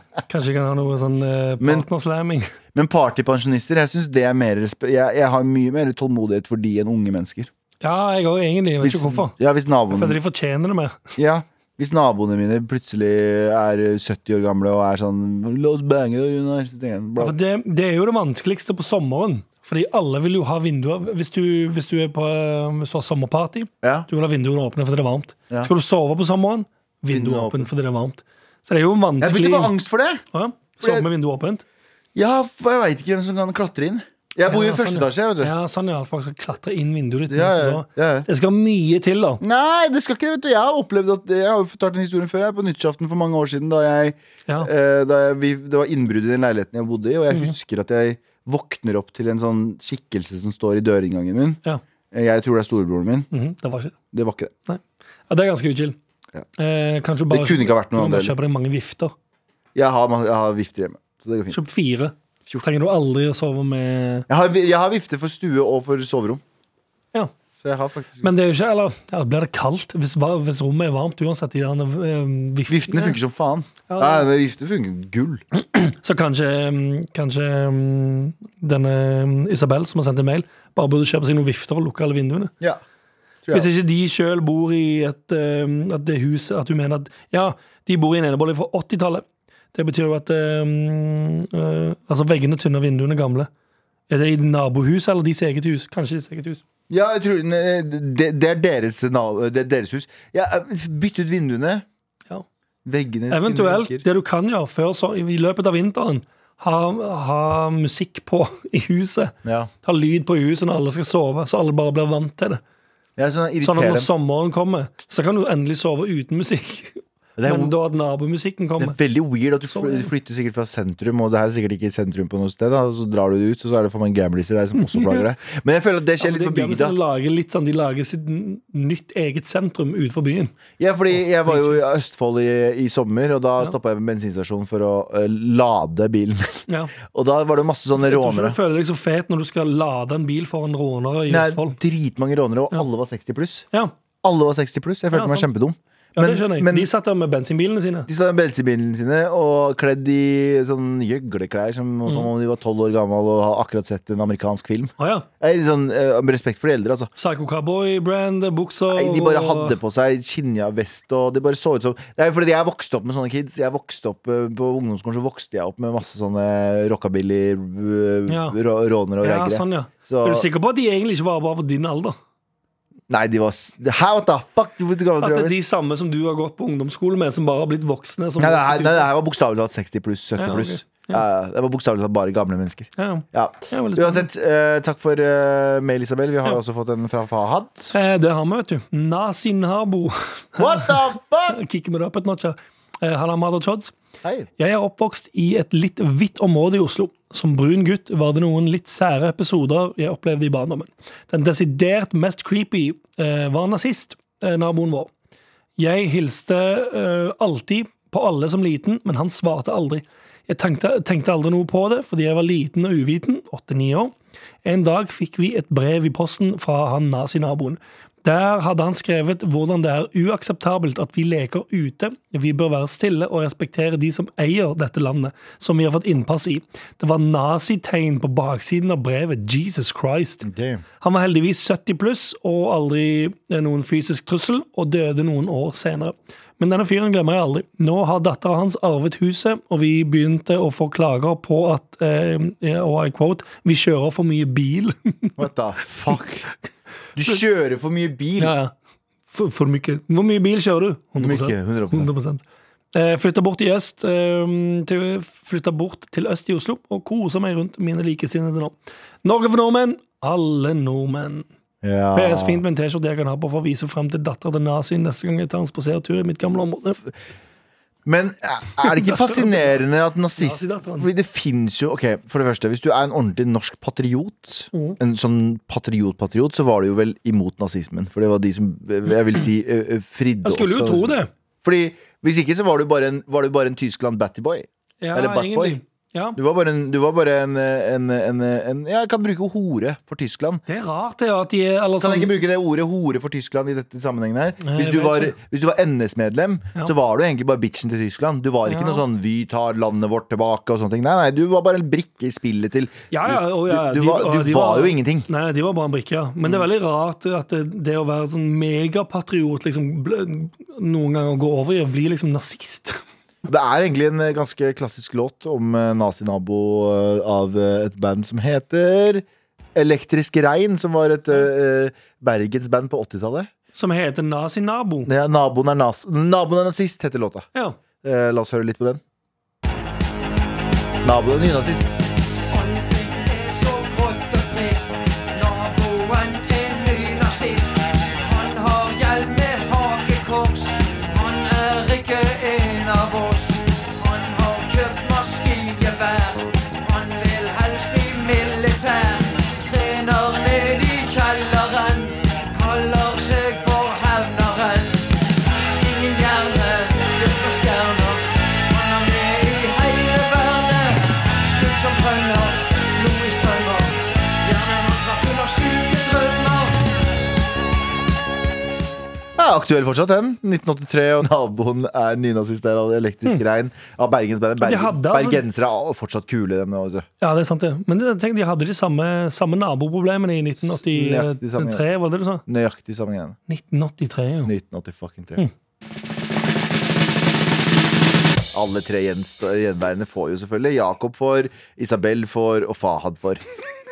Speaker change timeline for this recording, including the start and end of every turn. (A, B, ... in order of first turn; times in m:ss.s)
0:00.3-0:02.5 A
0:01.6-0:01.8 B
0:02.7-0:07.5 B
0:07.8-0:09.3 A
0:08.8-0:10.2 B
0:09.9-0:11.0 A
0:11.2-0:17.4 B
0:17.2-0:29.7 A
0:23.8-0:24.1 B
0:27.1-0:27.7 B
0:29.2-0:30.2 B
0:30.3-0:31.6 A
0:30.8-0:31.1 B
0:32.1-0:35.5 B
0:34.5-0:39.4 A
0:37.3-0:38.3 B
0:39.4-0:51.6 B
0:52.1-0:53.3 B
0:53.3-0:54.0 A
0:54.1-0:54.5 B
0:54.7-0:56.0 A
0:56.6-0:59.1 A
0:57.3-0:58.3 B
0:59.7-1:01.6 B
1:01.5-1:04.3 A
1:04.3-1:06.4 B
1:07.6-1:08.3 B
1:08.2-1:13.2 A
1:12.7-1:15.4 B
1:13.9-1:14.3 A
1:15.5-1:22.5 A
1:23.5-1:33.5 A
1:34.1-1:36.6 A
1:36.9-1:41.8 B
1:42.8-1:44.0 B
1:43.3-1:52.6 A
1:49.4-1:49.7 B
1:53.2-1:54.1 B
1:53.6-1:59.0 A
1:57.4-1:57.7 B
1:58.8-2:07.0 B
1:59.7-2:00.1 A
2:04.8-2:05.2 A
2:06.2-2:10.6 A
2:10.8-2:18.6 B
2:11.1-2:11.8 A
2:16.7-2:16.9 A
2:18.0-2:21.8 A
2:21.3-2:23.6 B
2:24.2-2:26.9 B
2:25.1-2:25.5 A
2:26.2-2:28.1 A
2:28.1-2:37.1 B
2:35.0-2:35.2 A
2:37.2-2:39.8 A
2:38.9-2:50.4 B
2:48.3-2:48.6 A
2:49.2-2:52.2 A
2:53.1-2:55.5 B
2:55.2-2:59.0 A
2:58.4-3:07.9 B
3:00.4-3:01.2 A
3:03.0-3:04.2 A
3:07.9-3:13.9 A
3:10.6-3:11.6 B
3:14.2-3:14.5 B
3:14.6-3:25.1 A
3:25.8-3:50.5 A
3:50.4-3:50.8 B
3:51.0-4:05.4 A
4:05.4-4:06.5 B
4:07.2-4:08.5 B
4:08.4-4:08.7 A
4:09.3-4:21.4 A
4:11.2-4:12.1 B
4:21.8-4:22.6 B
4:22.1-4:27.0 A
4:28.0-4:45.8 B
4:29.0-4:29.4 A
4:30.4-4:31.1 A
4:34.7-4:35.0 A
4:40.4-4:41.3 A
4:45.0-4:46.4 A
4:46.4-4:50.6 B
4:50.7-4:52.3 A
4:52.0-5:05.3 B
4:54.6-4:55.4 A
4:58.6-4:59.0 A
5:03.1-5:13.0 A
5:13.4-5:19.2 B
5:19.7-5:23.5 B
5:23.8-5:25.1 A
5:25.0-5:27.4 B
5:28.0-5:29.0 B
5:31.0-5:32.0 B
5:32.5-5:55.0 C
5:55.8-6:06.9 C
6:09.4-6:17.0 B
6:14.6-6:15.4 A
6:17.2-6:22.4 A
6:20.6-6:21.8 B
6:22.4-6:23.4 B
6:23.5-6:24.5 A
6:24.4-6:25.4 B
6:28.5-6:33.4 B